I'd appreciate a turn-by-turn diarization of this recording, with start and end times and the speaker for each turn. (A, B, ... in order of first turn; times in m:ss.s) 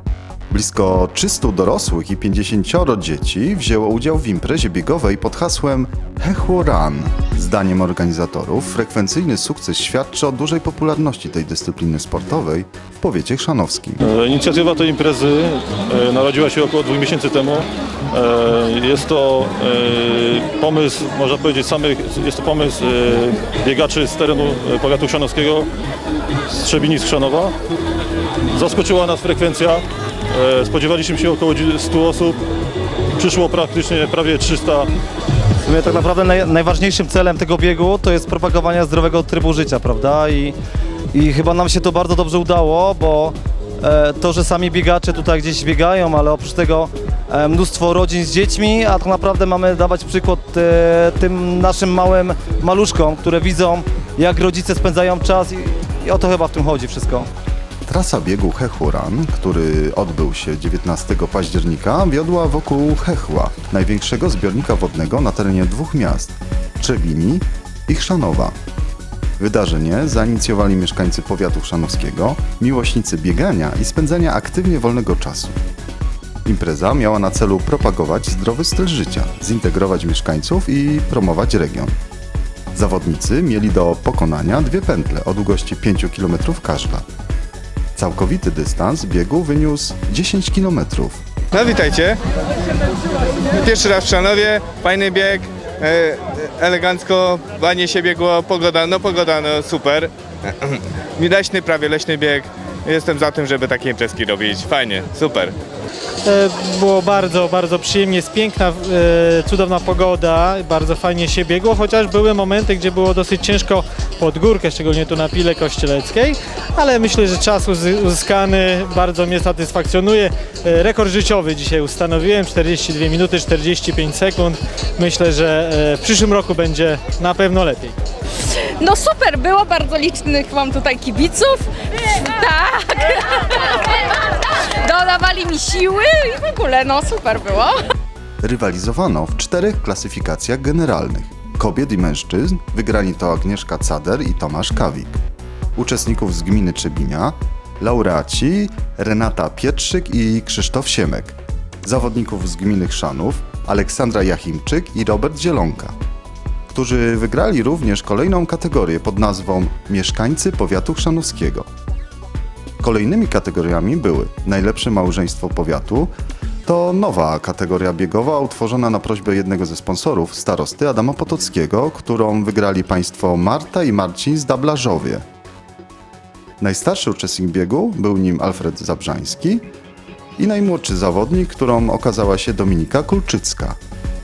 0:00.5-0:14.0 A
0:14.0-0:25.7 B
0:26.6-0:27.5 B
0:28.5-0:32.4 B
0:33.2-0:34.9 B
0:35.6-0:40.6 C
0:41.1-0:57.3 C
0:57.8-1:08.6 A
1:09.4-1:15.6 A
1:16.4-1:22.0 A
1:22.7-1:27.0 A
1:28.0-1:31.2 A
1:31.5-1:32.1 D
1:33.7-1:40.1 D
1:40.6-1:45.5 D
1:46.2-2:08.0 E
2:08.8-2:14.2 F
2:14.8-2:17.8 F
2:18.4-2:25.2 A
2:25.8-2:36.0 A
2:36.7-2:41.7 A
2:42.8-2:46.1 A
2:46.6-2:55.2 A
2:56.6-2:59.6 A
3:00.4-3:03.8 A